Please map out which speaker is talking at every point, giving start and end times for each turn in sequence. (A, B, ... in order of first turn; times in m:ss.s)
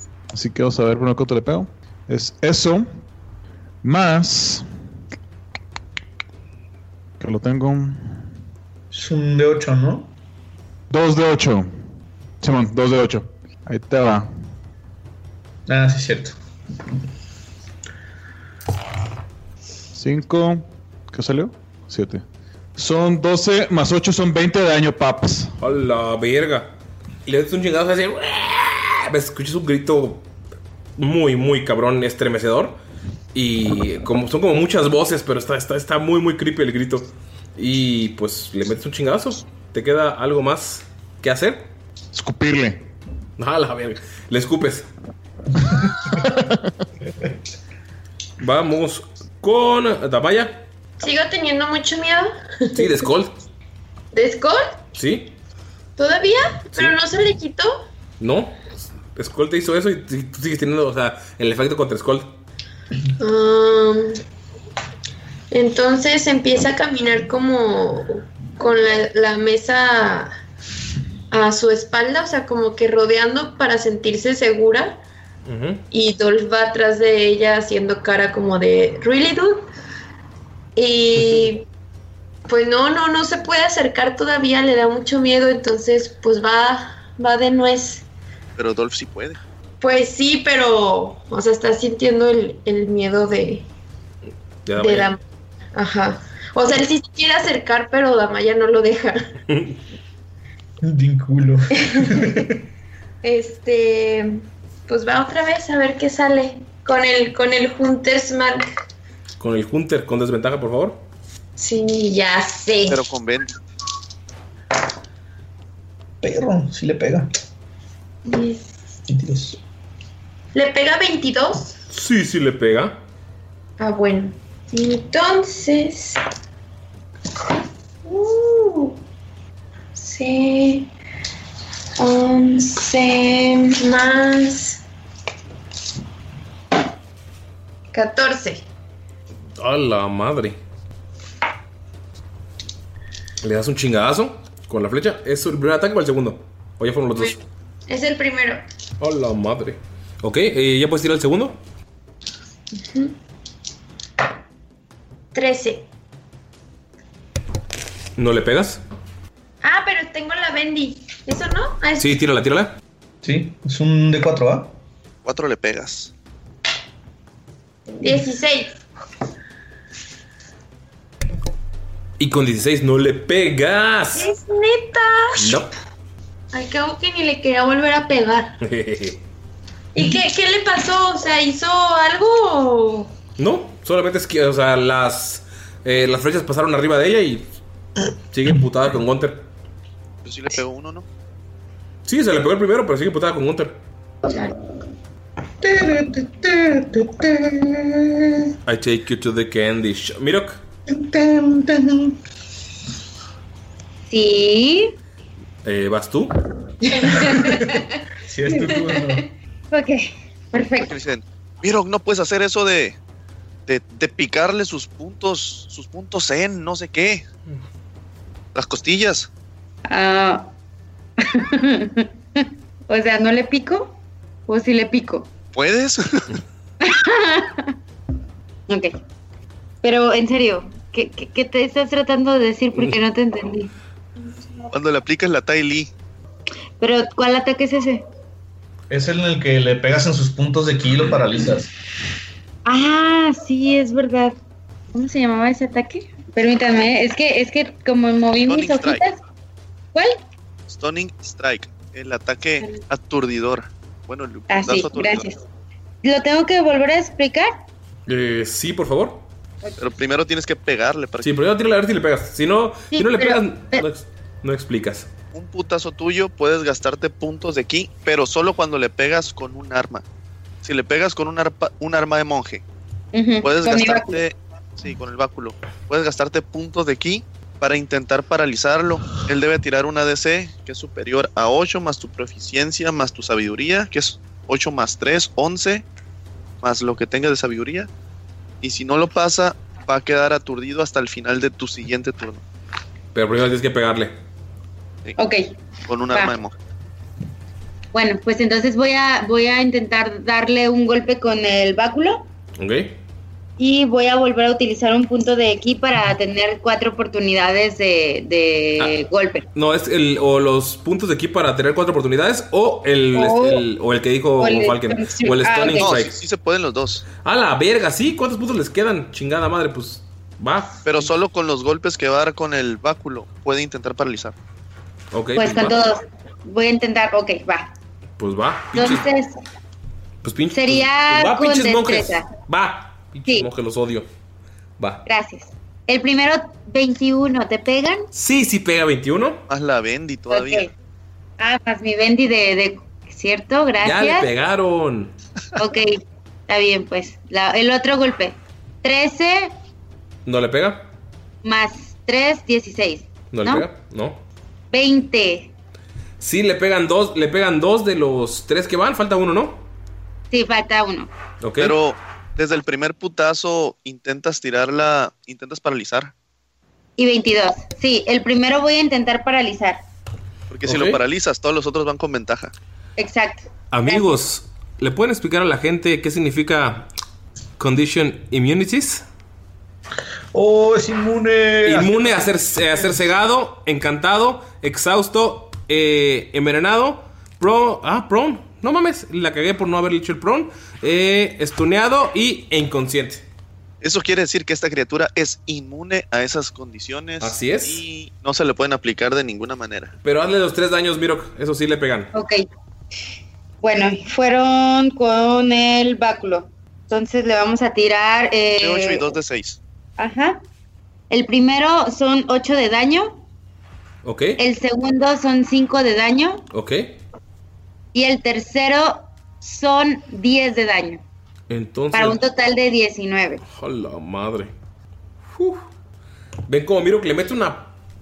0:00.3-0:02.9 A
0:03.8-0:04.6 A
0:07.2-0:08.1 A
0:08.9-0:10.1 B
0:10.9-0:11.7 A
0:12.4-0:14.3 A
0:15.7-0:16.4 B
0:19.9-0:22.2 A
0:22.8-0:25.5 A
0:25.6-0:26.7 C
0:27.2-0:30.2 C
0:31.0-0:32.8 C
0:33.3-0:41.7 C
0:42.1-0:42.8 A
0:43.4-0:44.9 C
0:48.4-0:50.6 C
0:51.0-0:53.1 D
0:52.8-0:53.3 C
0:54.1-0:54.8 D
0:54.9-0:55.4 C
0:56.0-0:57.8 D
0:58.2-1:02.4 C
1:03.2-1:04.2 D
1:05.5-1:10.3 D
1:11.3-1:15.0 D
1:15.4-1:15.8 C
1:15.9-1:19.7 D
1:20.8-1:21.6 D
1:22.5-1:28.0 D
1:28.6-1:29.4 E
1:29.8-1:33.6 D
1:34.6-1:35.1 C
1:34.8-1:35.2 D
1:35.7-1:39.3 D
1:39.5-1:39.8 C
1:40.8-1:42.5 B
1:41.8-1:42.1 D
1:43.2-1:48.6 D
1:49.4-1:51.0 C
1:51.6-1:53.0 D
1:52.9-1:53.5 E
1:56.2-1:57.3 B
1:58.2-1:58.7 D
1:59.1-1:59.6 B
2:00.5-2:01.7 D
2:01.9-2:03.0 C
2:03.8-2:06.2 D
2:08.0-2:09.0 D
2:09.9-2:10.9 D
2:12.0-2:14.8 D
2:17.9-2:18.6 D
2:19.6-2:20.6 C
2:23.4-2:27.4 C
2:27.9-2:28.6 D
2:29.0-2:31.6 C
2:32.7-2:33.1 D
2:35.3-2:35.9 D
2:38.2-2:38.8 C
2:39.6-2:42.1 D
2:42.0-2:42.7 C
2:43.2-2:44.7 B
2:45.2-2:46.1 E
2:48.0-2:48.7 D
2:52.2-2:54.3 C
2:54.1-2:55.6 D
2:55.4-2:55.7 C
2:56.5-2:58.6 D
2:58.6-2:59.2 C
2:59.9-3:03.1 D
3:03.4-3:07.5 C
3:08.3-3:09.4 C
3:10.2-3:11.0 E
3:12.0-3:13.8 C
3:15.6-3:18.5 B
3:18.6-3:20.6 C
3:20.9-3:22.2 B
3:24.1-3:24.9 F
3:25.6-3:26.3 C
3:27.1-3:29.2 B
3:29.7-3:30.9 F
3:30.8-3:33.0 E
3:33.7-3:37.2 E
3:38.5-3:39.3 E
3:39.9-3:40.5 F
3:41.2-3:44.0 F
3:44.5-3:45.3 F
3:45.5-3:46.2 E
3:46.8-3:47.7 F
3:48.7-3:49.0 F
3:49.8-3:53.7 F
3:54.7-3:55.9 E
3:56.8-3:58.0 F
3:58.9-4:01.7 B
4:02.6-4:04.4 F
4:04.9-4:09.2 F
4:08.4-4:09.0 E
4:09.9-4:10.2 F
4:10.7-4:15.3 E
4:14.5-4:15.4 F
4:16.0-4:17.6 F
4:18.1-4:19.2 C
4:19.8-4:21.4 E
4:21.2-4:25.1 C
4:22.9-4:23.8 F
4:25.3-4:30.0 E
4:30.6-4:32.6 E
4:33.1-4:34.2 F
4:33.4-4:45.8 E
4:46.6-4:47.9 E
4:48.6-4:52.4 E
4:53.1-4:54.1 C
4:55.2-4:55.6 F
4:55.9-4:56.5 E
4:57.9-5:02.3 F
5:02.6-5:03.0 C
5:03.6-5:09.4 F
5:09.5-5:16.1 C
5:13.1-5:13.6 F
5:14.4-5:15.9 F
5:15.8-5:17.0 E
5:17.2-5:21.1 C
5:20.8-5:24.3 E
5:25.1-5:25.8 C
5:25.3-5:27.7 F
5:28.2-5:29.0 C
5:28.7-5:29.3 F
5:30.2-5:34.1 C
5:30.5-5:32.3 F
5:35.0-5:38.1 F
5:38.1-5:39.4 C
5:39.5-5:40.7 E
5:40.3-5:40.7 F
5:41.4-5:44.3 F
5:43.8-5:45.1 C
5:45.6-5:49.5 F
5:50.2-5:50.9 C
5:51.4-5:53.6 F
5:53.3-5:54.2 C
5:54.7-5:55.5 F
5:56.2-5:59.7 C
6:00.3-6:01.1 F
6:01.4-6:01.8 C
6:01.6-6:06.1 E
6:07.0-6:09.8 F
6:10.5-6:12.5 E
6:10.6-6:11.0 C
6:13.0-6:14.2 F
6:13.7-6:16.9 C
6:17.6-6:19.0 C
6:20.3-6:23.0 B
6:21.6-6:33.2 C
6:33.8-6:39.9 E
6:37.2-6:37.8 C
6:40.0-6:42.1 C
6:42.1-6:42.4 F
6:43.6-6:49.1 F
6:48.6-6:49.6 E
6:50.0-6:50.4 F
6:51.1-6:53.2 F
6:54.0-6:54.4 C
6:54.4-6:56.4 F
6:56.5-6:57.0 C
6:57.9-7:01.0 F
7:01.5-7:02.2 C
7:01.9-7:03.4 F
7:03.5-7:04.5 C
7:05.3-7:05.6 C
7:06.5-7:07.7 C